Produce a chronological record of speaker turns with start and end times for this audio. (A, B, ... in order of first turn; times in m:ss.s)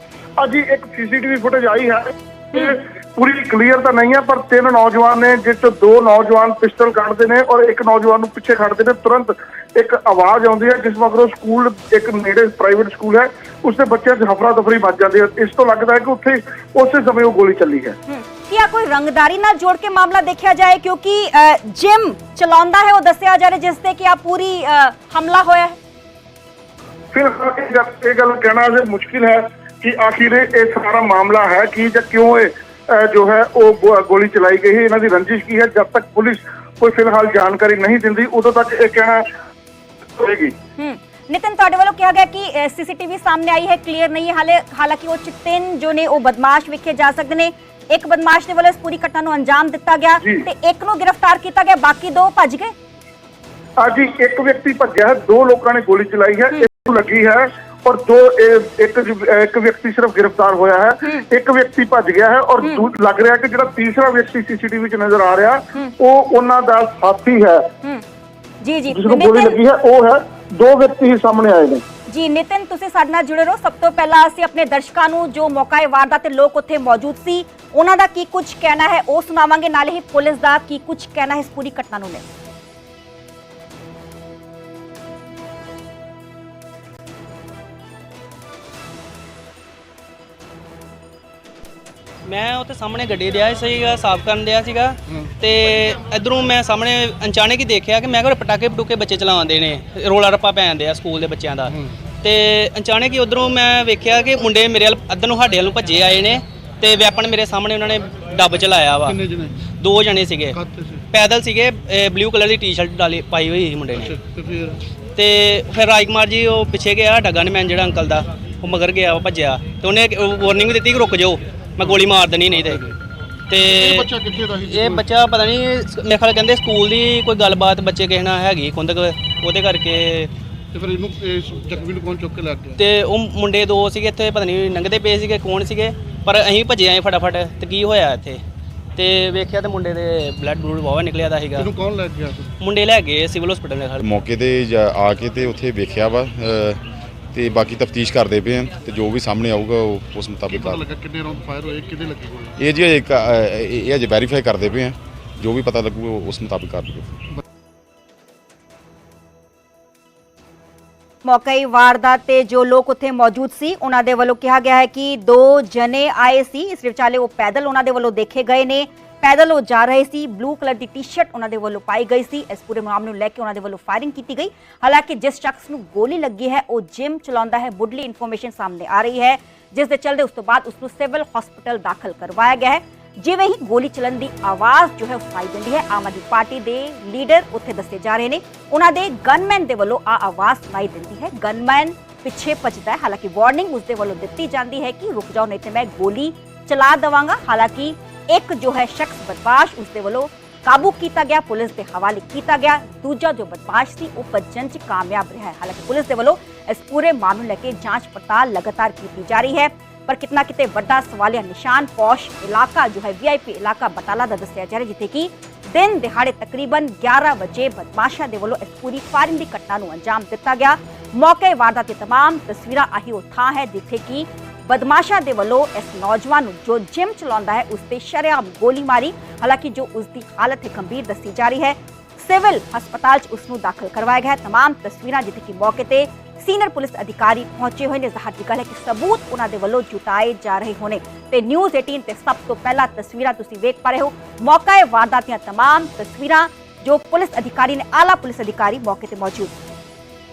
0:00.4-0:18.0 A
0:18.1-0:25.8 B
0:27.1-0:39.2 A
0:40.2-0:40.5 A
0:40.8-0:52.7 B
0:53.8-1:07.7 A
1:08.6-1:09.6 B
1:08.9-1:11.8 A
1:12.1-1:22.2 B
1:32.2-1:49.2 C
1:41.7-1:41.9 D
1:49.0-1:49.6 D
1:49.8-1:50.6 C
1:50.5-1:51.0 D
1:51.1-1:54.1 C
1:53.9-1:54.8 D
1:55.2-2:02.8 C
2:03.5-2:10.3 C
2:03.7-2:05.0 D
2:10.7-2:12.8 D
2:12.8-2:18.4 C
2:19.0-2:21.7 C
2:21.6-2:22.5 D
2:22.6-2:24.1 C
2:24.0-2:30.8 E
2:30.5-2:32.6 D
2:32.6-2:37.2 E
2:41.2-4:09.5 B